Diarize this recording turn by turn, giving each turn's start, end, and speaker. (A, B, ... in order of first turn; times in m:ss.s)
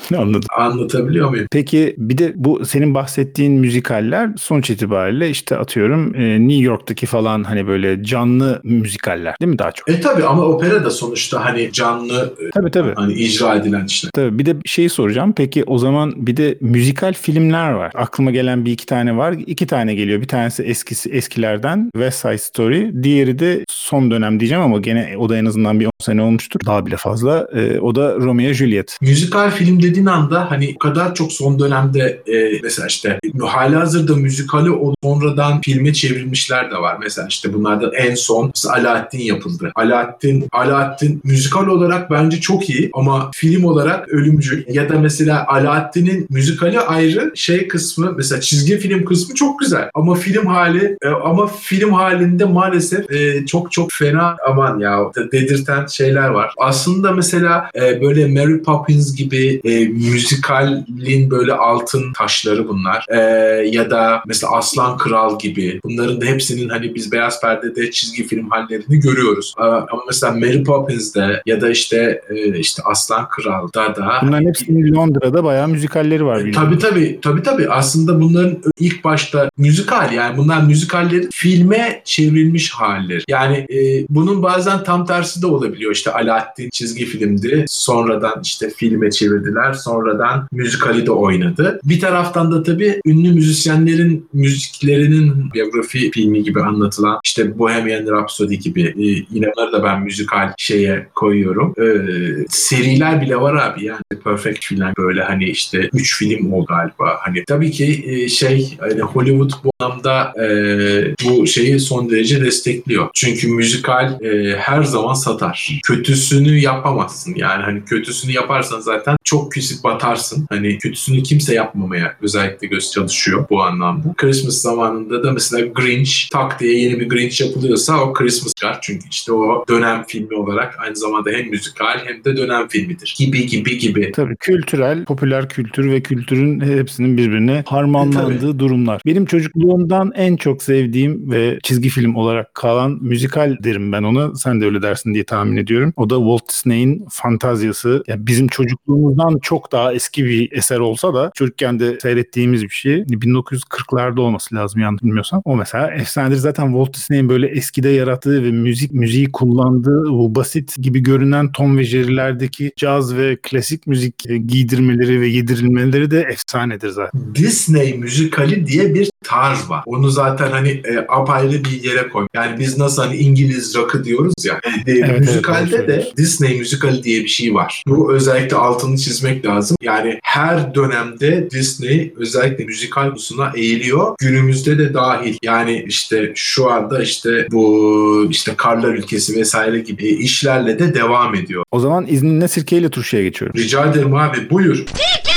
0:00.1-0:00.5 A
0:00.5-0:01.5 B
0:01.5-0:09.9 A
0:09.9-0:14.1 B
0:12.5-0:13.0 A
0:14.1-0:29.0 A
0:29.0-1:14.7 B
1:14.2-1:16.8 A
1:16.4-2:14.1 B
2:14.1-2:47.1 A
2:18.0-2:18.4 B
2:47.1-3:11.6 B
2:55.0-2:56.1 A
3:11.7-3:13.6 A
3:13.5-3:14.9 B